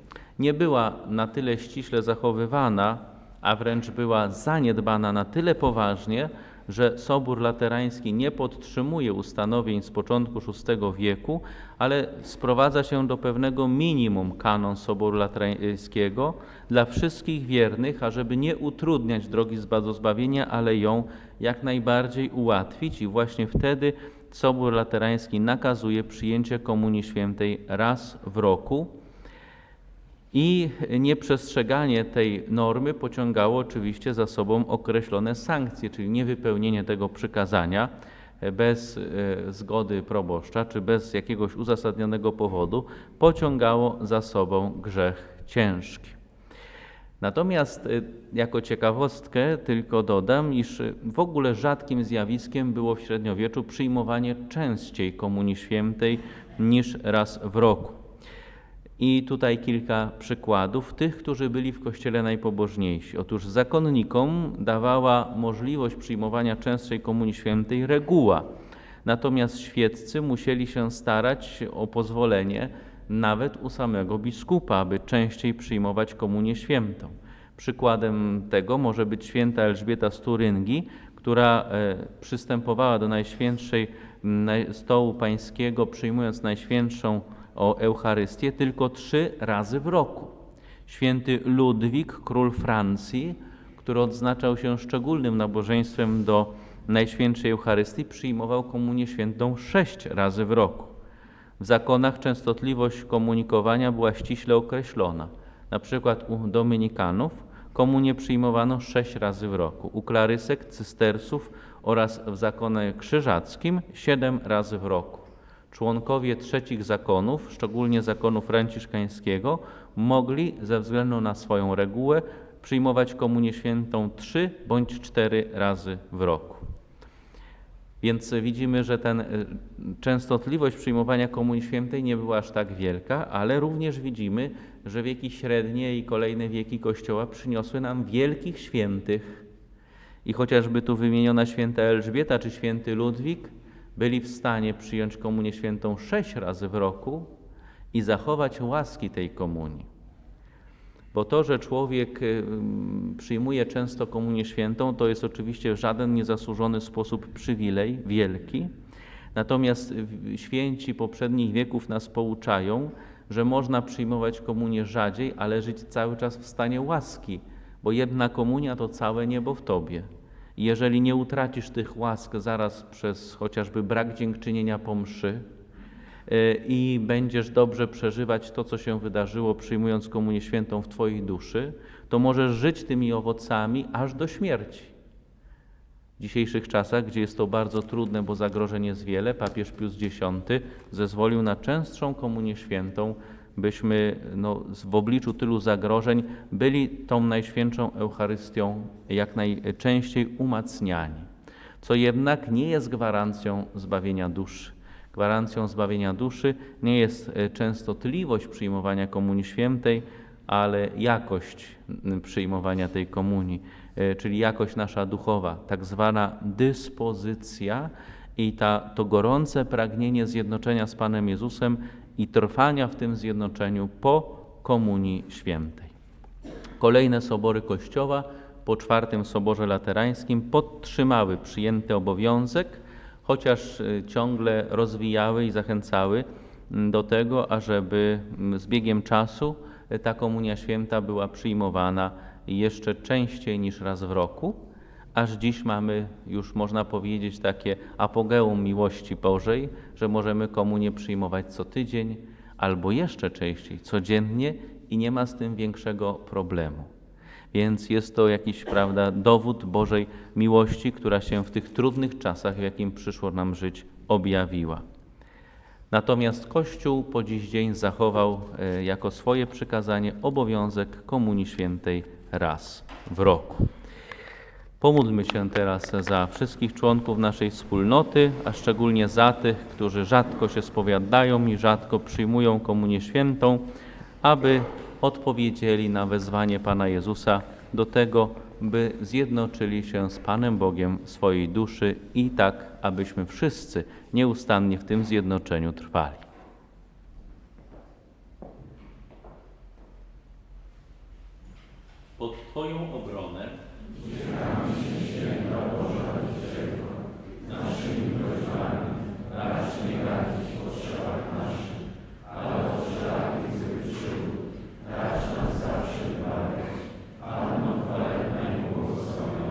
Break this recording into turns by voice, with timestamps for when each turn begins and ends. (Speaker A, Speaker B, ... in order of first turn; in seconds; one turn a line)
Speaker A: 0.4-28.9
Speaker A: 30.3-46.2
Speaker A: 47.2-58.0
Speaker A: 59.0-68.5
Speaker A: 69.0-90.3
Speaker A: 90.9-100.9
Speaker A: 101.6-126.6
Speaker A: 128.0-139.4
Speaker A: 140.2-147.3
Speaker A: 147.9-149.9
Speaker A: 151.1-158.7
Speaker A: 159.3-175.4
Speaker A: 176.3-184.9
Speaker A: 186.2-201.3
Speaker A: 201.8-225.9
Speaker A: 226.8-244.6
Speaker A: 245.1-256.9
Speaker A: 257.5-264.8
Speaker A: 265.9-273.7
Speaker A: 274.8-283.7
Speaker A: 284.2-296.2
Speaker A: 302.2-303.6
Speaker A: 309.4-309.7